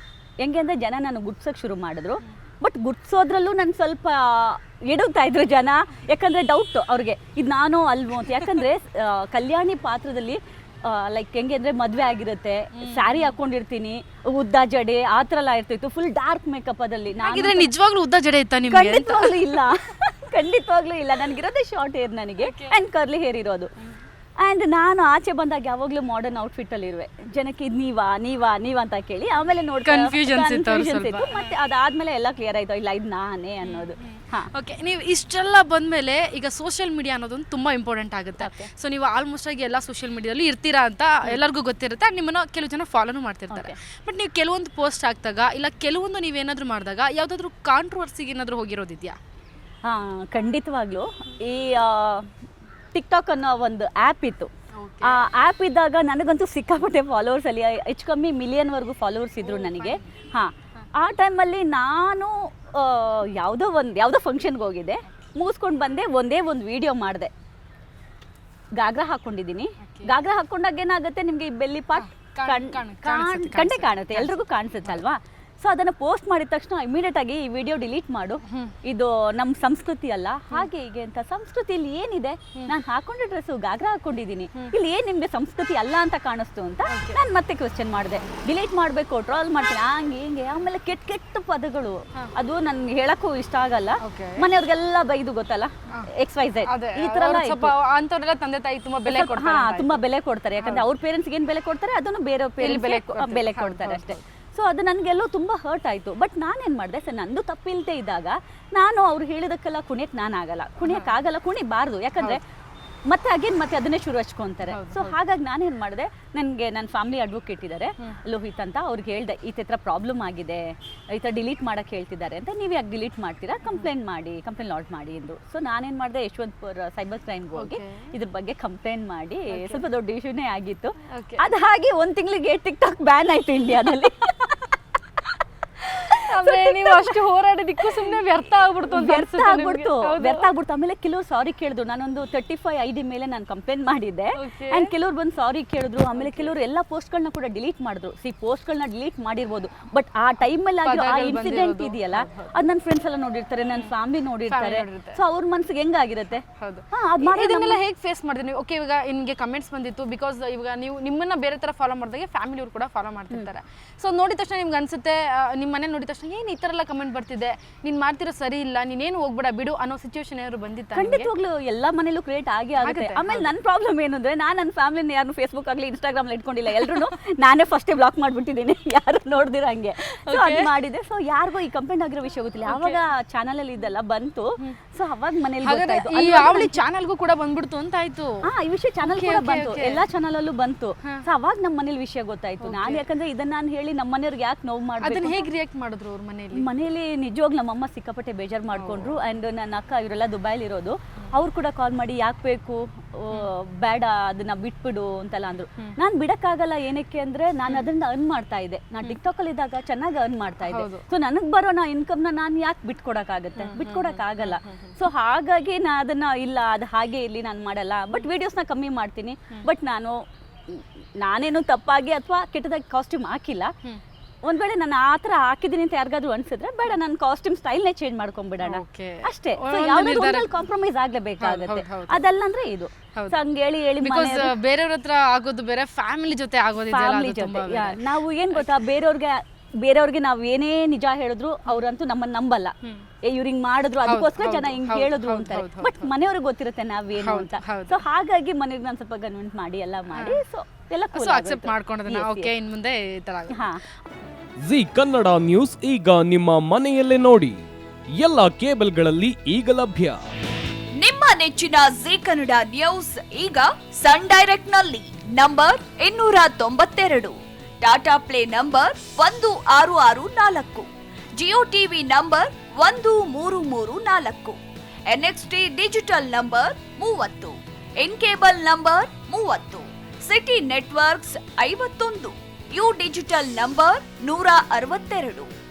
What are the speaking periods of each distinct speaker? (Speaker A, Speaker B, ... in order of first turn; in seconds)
Speaker A: 0.4-17.7, 18.7-23.7, 24.4-34.5, 38.4-38.7, 43.5-43.8, 49.9-52.3, 52.9-54.5, 55.0-67.3, 68.8-97.7, 99.1-112.4, 113.1-134.7, 136.5-137.1, 138.9-157.8, 170.9-186.8, 188.5-195.5, 196.6-220.2, 220.7-223.7, 224.4-234.5, 236.9-242.7, 243.2-252.5, 253.5-253.8
Speaker B: 12.8-13.3, 17.2-19.4, 22.4-22.8, 29.8-31.5, 33.6-49.2, 54.8-55.2, 59.4-60.1, 69.8-70.1, 72.0-75.0, 86.9-87.2, 94.0-94.4, 96.7-100.0, 102.6-104.2, 114.7-115.2, 127.5-128.1, 129.5-129.8, 131.1-131.4, 136.2-140.5, 144.4-144.9, 146.2-146.5, 150.8-152.5, 154.5-155.2, 156.5-171.3, 172.8-173.5, 180.1-180.7, 182.7-183.0, 185.6-188.4, 189.0-190.0, 192.6-193.0, 195.0-196.7, 198.7-199.2, 210.7-211.1, 213.6-214.9, 228.6-230.5, 231.4-232.2, 234.0-238.7, 244.1-246.1, 247.2-248.0, 250.2-250.4, 251.1-253.7
Speaker C: 254.6-257.6, 258.2-260.2
Speaker D: 261.0-285.5